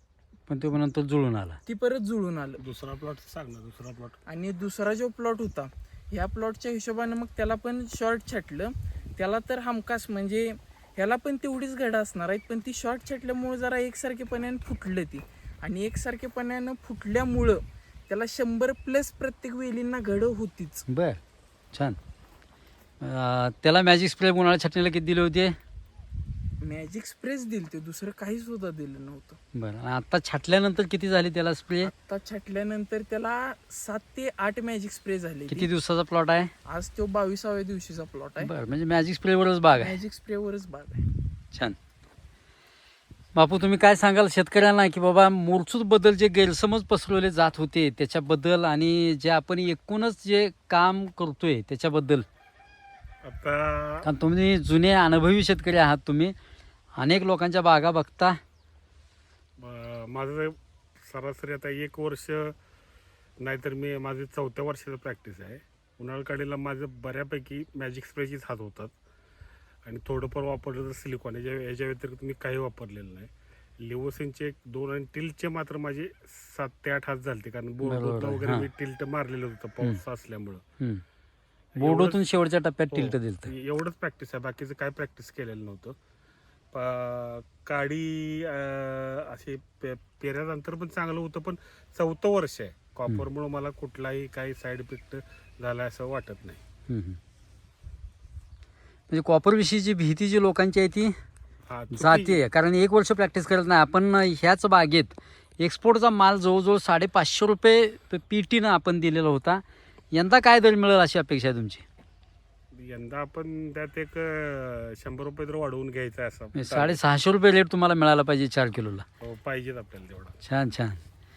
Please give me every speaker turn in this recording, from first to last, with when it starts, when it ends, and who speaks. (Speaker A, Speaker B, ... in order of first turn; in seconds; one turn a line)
Speaker A: 0.5-1.6
Speaker B: 1.7-2.6
Speaker C: 2.6-4.2
Speaker B: 4.3-20.9
Speaker A: 20.9-21.2
Speaker A: 21.7-22.0
Speaker A: 23.0-25.6
Speaker B: 26.6-29.4
Speaker A: 29.6-31.9
Speaker B: 31.8-35.7
Speaker A: 35.5-36.5
Speaker B: 36.7-38.5
Speaker A: 38.4-40.0
Speaker B: 39.8-41.1
Speaker A: 41.5-41.8
Speaker A: 43.4-52.3
Speaker C: 53.2-54.1
Speaker A: 54.0-56.4
Speaker A: 57.0-58.4
Speaker C: 59.6-62.5
Speaker C: 63.4-69.0
Speaker C: 69.8-80.6
Speaker A: 77.8-78.7
Speaker C: 81.8-82.2
Speaker A: 81.8-83.5
Speaker C: 82.9-86.0
Speaker C: 86.7-96.6
Speaker A: 96.9-97.2
Speaker A: 99.1-101.2
Speaker C: 101.7-102.4
Speaker A: 101.9-111.8
Speaker C: 112.7-117.0
Speaker A: 116.5-119.1
Speaker C: 119.2-120.4
Speaker A: 120.4-121.0